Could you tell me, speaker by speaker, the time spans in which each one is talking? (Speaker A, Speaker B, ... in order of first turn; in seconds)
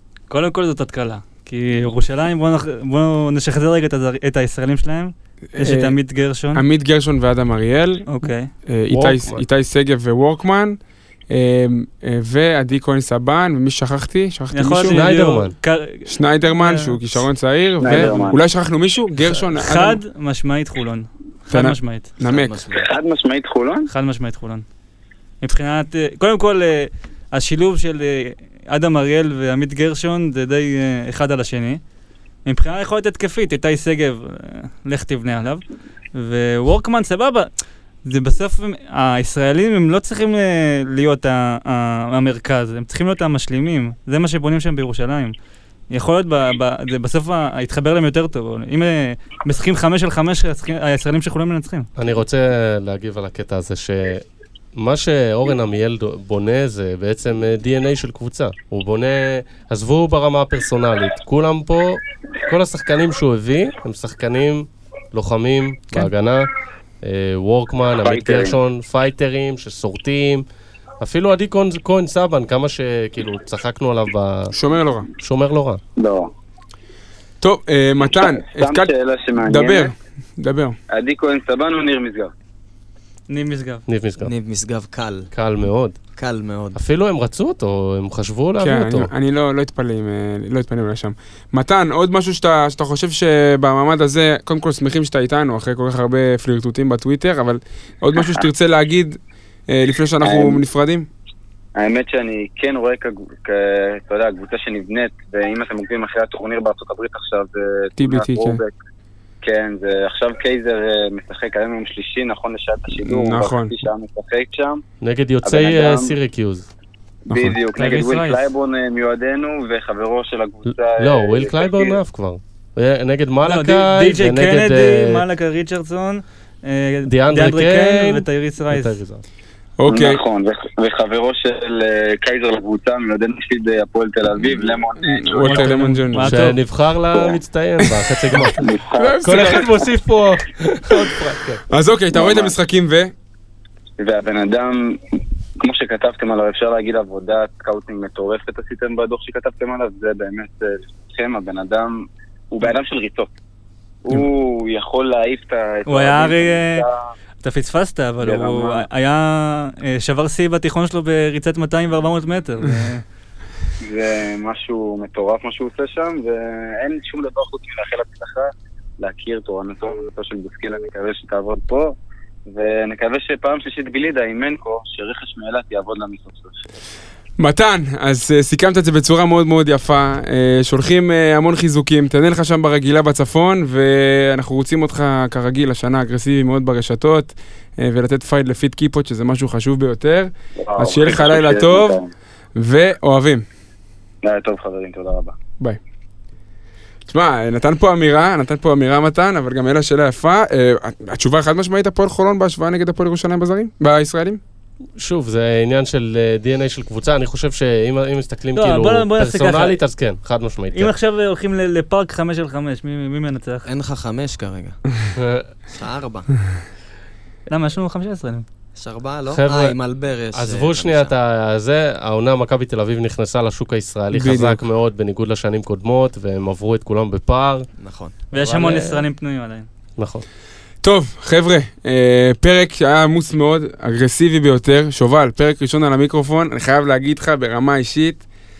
Speaker A: 0.3-6.6, 8.1-8.5, 14.5-17.0, 19.5-22.1, 23.9-24.6, 25.4-31.8, 32.4-37.5, 38.0-45.3, 45.9-51.9, 83.3-83.8, 117.8-118.4, 123.4-129.0, 135.4-136.6, 155.9-156.8, 157.4-163.0, 208.6-209.8, 210.7-213.7, 217.5-218.4, 228.3-229.7
Speaker B: 5.5-6.0, 6.5-8.1, 8.7-10.8, 11.3-15.0, 16.1-20.0, 21.5-22.5, 74.5-75.1, 77.4-80.8, 88.6-101.1, 108.0-108.6, 113.0-113.8, 117.3-117.6, 129.8-130.2, 134.5-136.5, 139.0-139.8, 141.7-143.1, 177.4-192.0, 192.5-193.4, 197.1-204.4, 224.1-224.6, 230.8-238.2
Speaker C: 8.9-9.4, 14.9-15.5, 52.0-54.2, 54.8-66.5, 67.0-70.4, 71.0-74.5, 75.2-75.8, 83.9-84.3, 85.3-86.0, 86.7-89.1, 115.0-116.7, 120.7-125.2, 127.1-129.2, 135.6-138.7, 139.2-141.6, 205.0-210.9, 215.2-215.5, 219.3-219.8, 220.3-227.7, 228.3-229.0, 230.0-230.2
Speaker D: 17.8-18.4, 22.7-23.9, 67.9-68.6, 76.0-76.3, 78.2-79.9, 80.9-82.3, 100.2-100.6, 101.8-108.7, 109.4-114.8, 115.4-116.1, 117.3-122.0, 129.9-135.7, 137.1-137.4, 138.5-139.7, 142.1-142.5, 144.0-145.0, 145.6-153.3, 154.0-157.0, 158.2-158.8, 163.8-171.9, 172.5-176.6, 190.6-192.1, 194.2-195.3
Speaker E: 22.2-22.9, 84.2-85.3, 86.2-86.8, 213.7-214.8, 215.7-216.3, 218.8-221.1, 227.8-228.1